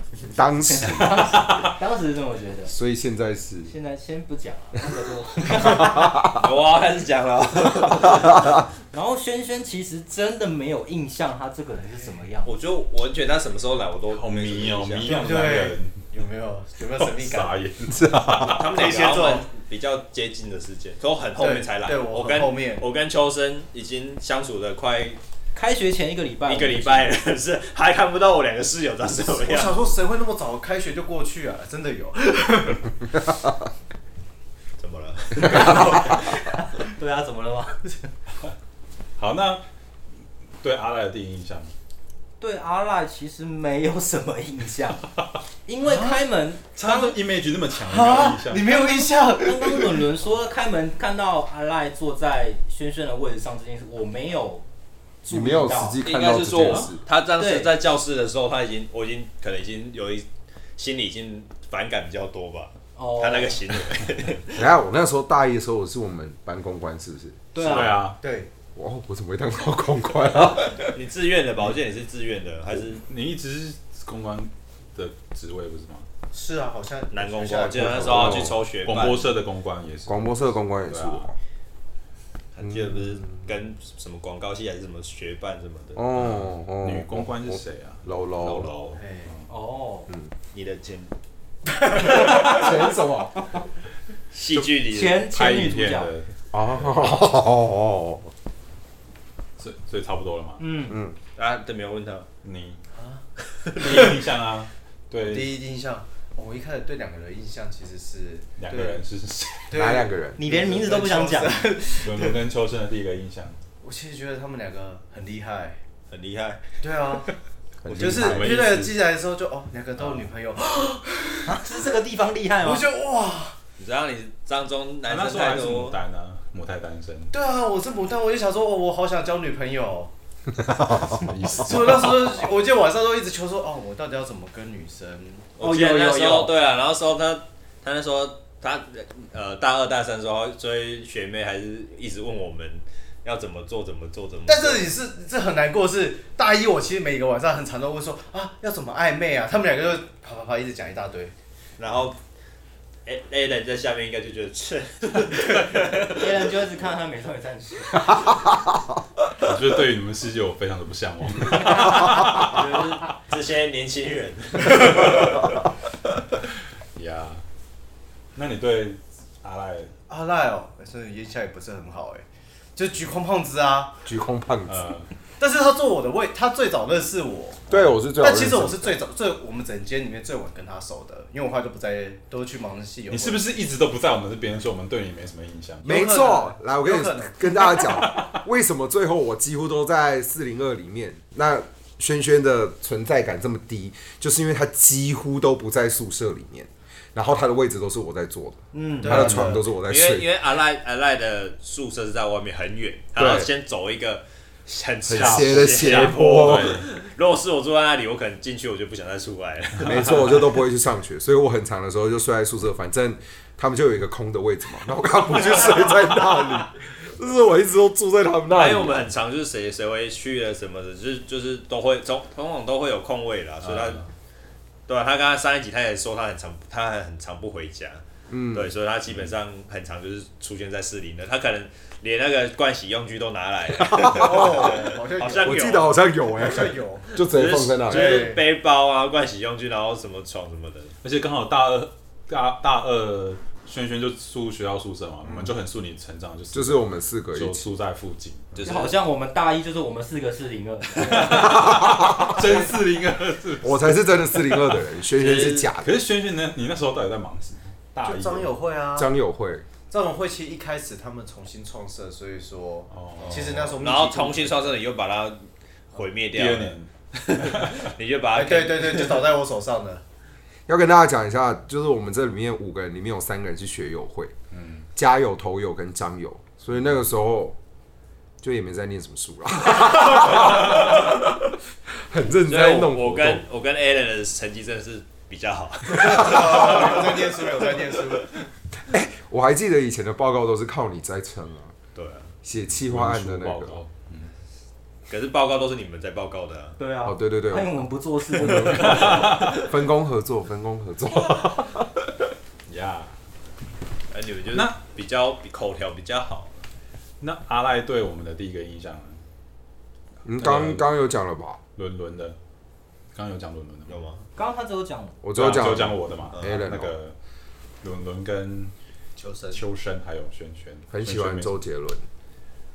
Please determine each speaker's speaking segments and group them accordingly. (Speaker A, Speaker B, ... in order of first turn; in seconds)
Speaker A: 0.3-1.6, 2.7-3.7, 17.9-18.6, 55.3-57.0, 64.5-67.4, 68.8-70.9, 77.8-78.6, 80.1-81.4, 82.6-83.2, 86.0-88.7, 92.1-93.4, 96.5-98.3, 100.9-101.2, 109.7-110.4, 117.8-118.6, 174.1-174.9, 177.7-179.0, 185.8-200.3, 203.2-203.5, 205.1-206.8, 209.8-219.1, 228.3-228.7, 233.9-234.7, 235.4-238.4, 246.5-247.7, 251.3-252.5, 253.6-256.0, 258.9-259.6, 270.7-274.3, 274.9-277.6, 278.4-281.4, 282.1-283.4, 288.9-291.7, 292.4-293.8, 297.0-297.7, 298.4-302.1, 310.2-311.6, 315.2-317.0, 320.9-322.1
Speaker B: 0.6-2.7, 3.6-6.2, 8.9-12.5, 25.6-27.1, 35.5-37.9, 42.4-45.0, 45.6-47.2, 48.7-54.6, 55.2-56.0, 57.4-57.7, 63.0-63.6, 67.5-68.0, 89.5-90.1, 94.9-96.1, 100.6-101.0, 110.4-111.8, 121.5-122.9, 135.6-136.5, 156.0-158.2, 198.7-199.5, 248.6-251.7, 296.8-299.2, 314.4-315.2
Speaker C: 6.1-8.5, 12.4-15.6, 18.4-25.2, 26.5-29.8, 34.8-36.1, 56.0-64.6, 70.8-73.0, 77.1-79.3, 82.5-86.0, 90.5-91.1, 94.3-95.2, 101.4-102.3, 116.1-116.8, 123.8-126.0, 135.6-144.9, 151.8-152.2, 153.1-156.3, 162.3-165.5, 199.8-210.5, 218.5-224.0, 224.9-235.9, 237.2-240.9, 248.5-248.9, 255.2-255.7, 263.2-266.8, 267.3-269.3, 282.3-287.8, 291.9-292.3, 295.1-296.8, 304.1-306.6, 313.9-314.3, 316.3-316.6
Speaker D: 14.1-16.0, 17.0-18.7, 39.2-39.6, 40.6-41.7, 46.8-48.7, 67.6-68.2, 73.1-76.1, 78.8-81.3, 86.1-89.3, 94.5-97.2, 99.6-100.8, 102.4-102.8, 103.8-105.6, 108.6-109.7, 112.0-113.6, 117.9-119.0, 125.1-127.3, 130.7-132.4, 159.4-162.8, 167.0-167.4, 168.3-169.9, 174.7-175.1, 183.1-185.9, 187.6-188.4, 205.1-206.9, 223.7-224.0, 241.0-248.9, 251.0-254.6, 255.8-258.5, 262.9-263.8, 266.3-267.9, 274.5-274.9, 292.7-294.3, 298.4-299.7, 302.6-303.1, 307.2-309.2, 310.3-310.9, 311.8-312.4, 313.1-314.0, 315.3-317.1, 317.8-318.7, 319.5-321.6
Speaker E: 15.0-17.6, 18.6-19.5, 21.4-22.9, 29.2-32.9, 35.4-36.1, 45.9-46.2, 47.8-50.1, 68.2-68.5, 76.3-78.5, 89.0-89.4, 91.8-92.7, 103.0-103.2, 105.2-109.0, 109.7-112.4, 113.8-115.8, 116.8-117.3, 118.0-121.6, 122.6-123.6, 127.3-130.1, 131.5-135.5, 144.5-151.3, 170.1-172.2, 172.8-174.0, 175.4-183.4, 185.8-187.5, 199.0-199.6, 234.0-237.2, 237.8-238.4, 258.0-259.1, 259.9-264.8, 268.3-270.0, 285.9-288.3, 319.2-319.6